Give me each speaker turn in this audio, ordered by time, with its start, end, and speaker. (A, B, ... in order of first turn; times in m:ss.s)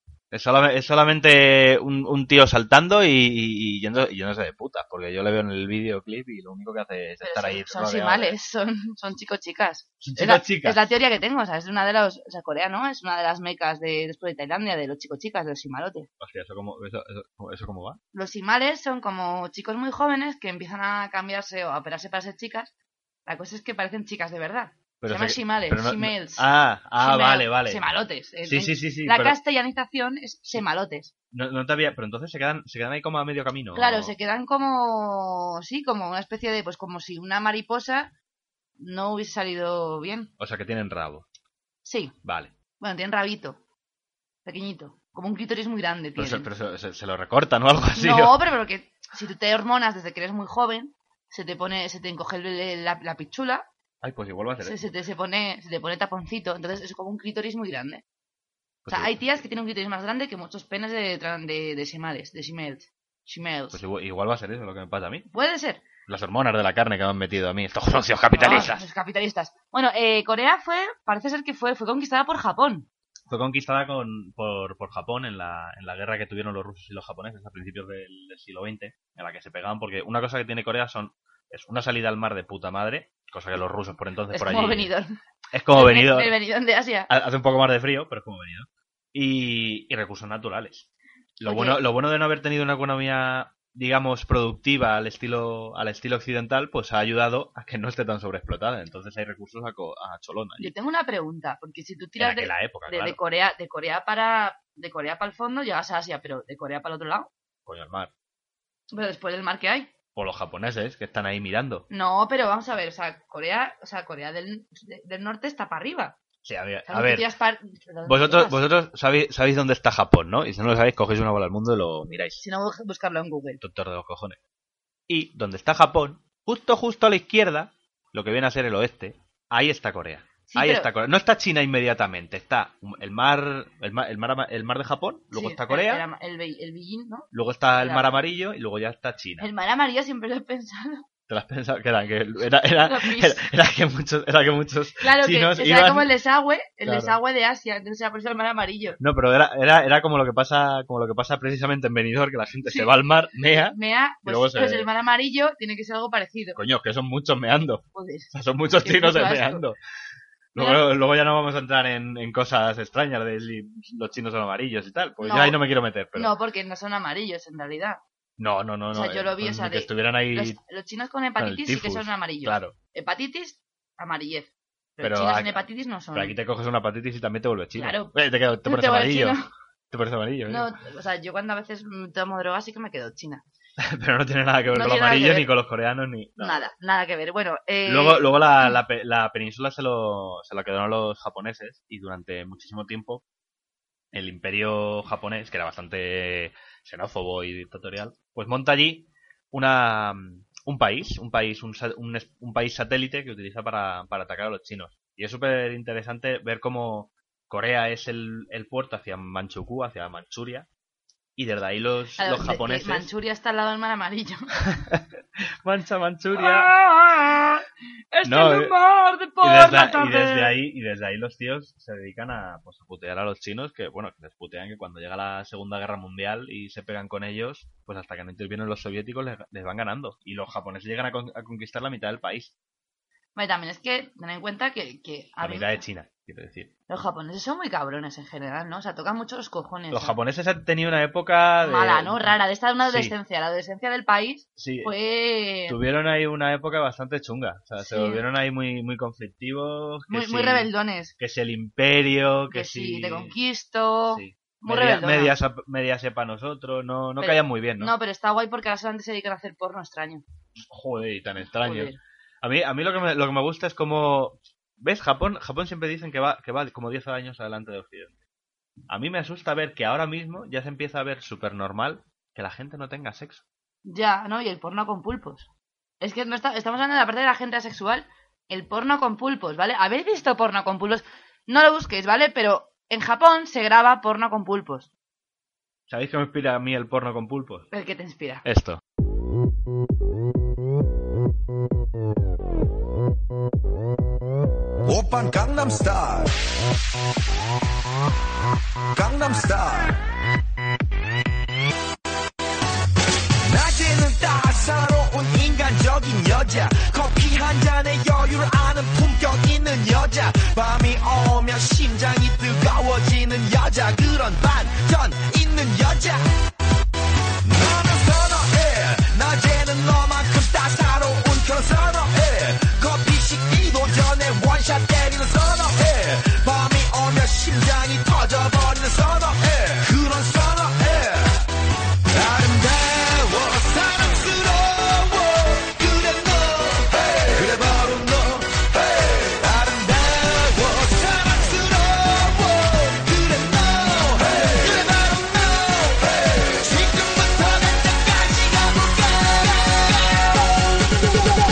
0:00.3-0:08.3 A
0:07.2-0:16.1 B
0:10.0-0:10.8 A
0:16.2-0:18.0 A
0:18.1-0:22.7 B
0:23.3-0:26.4 B
0:25.0-0:27.8 A
0:27.0-0:31.1 B
0:28.4-0:29.4 A
0:31.3-0:34.1 A
0:33.8-0:38.1 B
0:38.8-0:40.3 B
0:40.4-0:41.2 A
0:41.8-0:42.2 B
0:42.2-0:42.5 A
0:42.8-0:43.6 B
0:44.4-0:46.5 B
0:46.2-0:48.4 A
0:48.0-0:53.7 B
0:54.0-0:55.0 A
0:54.6-0:58.0 B
0:58.8-0:59.4 A
0:58.9-1:03.8 B
1:03.7-1:05.3 A
1:05.3-1:05.8 B
1:06.1-1:08.9 A
1:08.4-1:12.9 B
1:13.3-1:24.9 A
1:24.3-1:25.2 B
1:25.5-1:26.4 A
1:25.7-1:27.1 B
1:27.1-1:30.9 A
1:31.4-1:40.7 A
1:31.4-1:31.8 B
1:40.6-1:47.3 B
1:42.2-1:43.2 A
1:47.7-1:48.1 A
1:48.9-1:49.9 B
1:50.2-1:51.8 A
1:51.9-1:56.2 B
1:56.4-1:57.3 A
1:56.9-1:58.6 B
1:58.1-2:02.4 A
2:02.4-2:03.6 B
2:03.6-2:04.4 A
2:05.1-2:16.0 A
2:10.5-2:10.9 B
2:15.3-2:18.2 B
2:17.3-2:19.5 A
2:19.4-2:21.0 B
2:21.3-2:26.1 A
2:22.8-2:23.4 B
2:25.0-2:29.0 B
2:26.8-2:27.2 A
2:29.0-2:34.9 A
2:32.7-2:32.9 B
2:33.7-2:36.6 B
2:36.6-2:39.8 A
2:38.0-2:39.6 B
2:40.5-2:46.3 A
2:40.6-2:40.8 B
2:45.2-2:45.6 B
2:46.2-2:48.0 B
2:48.4-2:50.6 A
2:48.9-2:56.4 B
2:51.4-2:52.8 A
2:55.0-3:00.7 A
2:57.8-2:58.1 B
2:58.7-2:59.5 B
3:00.5-3:03.4 B
3:03.8-3:06.7 A
3:04.7-3:05.5 B
3:06.4-3:08.7 B
3:07.9-3:13.2 A
3:14.1-3:30.7 A
3:31.4-3:33.1 A
3:32.2-3:34.6 B
3:34.8-3:35.0 A
3:35.6-3:36.7 A
3:36.3-3:40.6 B
3:38.2-3:38.7 A
3:39.4-3:52.5 A
3:53.4-3:55.8 B
3:55.4-3:56.7 A
3:56.9-4:00.2 B
3:59.9-4:03.2 A
4:01.6-4:05.8 B
4:04.6-4:04.9 A
4:05.7-4:13.3 A
4:07.8-4:08.2 B
4:10.1-4:11.1 B
4:12.5-4:15.4 B
4:14.1-4:17.9 A
4:17.2-4:20.2 B
4:20.7-4:28.1 A
4:21.6-4:22.0 B
4:28.9-4:33.4 A
4:33.8-4:35.5 B
4:36.0-4:44.9 B
4:45.9-4:47.7 A
4:47.7-4:48.4 B
4:48.4-4:48.8 A
4:54.9-4:56.3 C
4:59.0-5:00.0 C
5:03.4-5:16.3 C
5:17.4-5:31.4 C
5:32.1-5:50.3 C